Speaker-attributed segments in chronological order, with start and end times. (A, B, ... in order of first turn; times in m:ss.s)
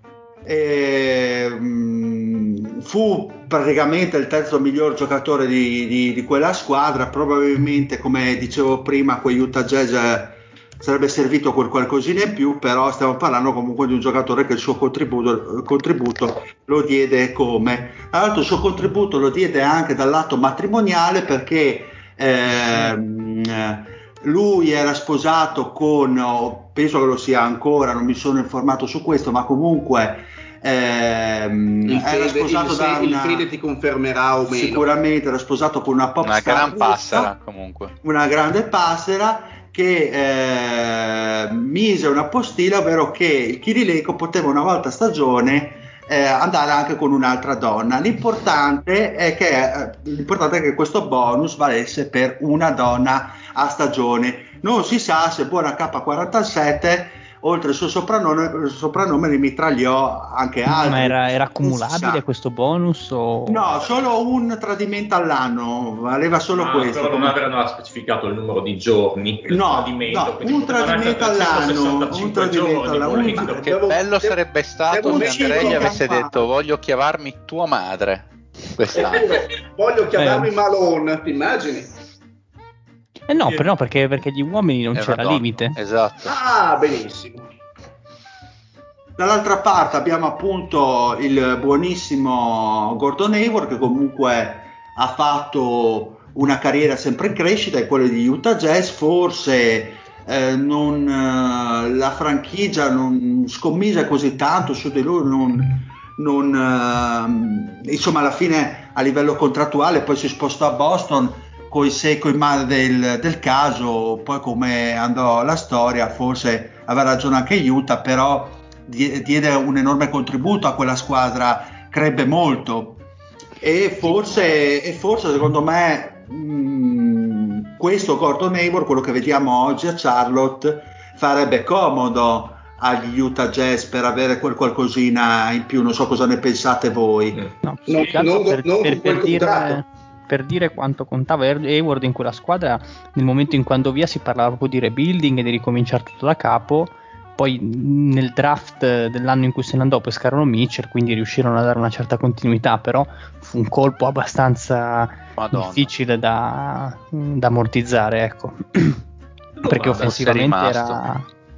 0:00.4-0:33.5 A
0:31.8-0:34.8 B
0:34.5-0:37.3 A
0:36.2-0:37.9 C
0:38.0-1:02.2 A
1:00.7-1:03.8 D
1:03.5-1:07.4 A
1:06.5-1:13.6 E
1:09.5-1:13.6 A
1:13.2-1:16.0 B
1:13.4-1:19.4 C
1:15.0-1:16.5 A
1:18.9-1:21.9 B
1:20.2-1:20.4 D
1:23.3-1:25.8 D
1:24.9-1:26.4 C
1:26.2-1:27.5 B
1:29.2-2:03.0 A
2:03.6-2:17.4 A
2:17.3-2:18.1 E
2:17.6-2:39.0 D
2:17.9-2:19.8 B
2:35.4-2:35.9 C
2:39.6-2:40.2 E
2:39.6-2:41.2 D
2:39.9-2:41.0 C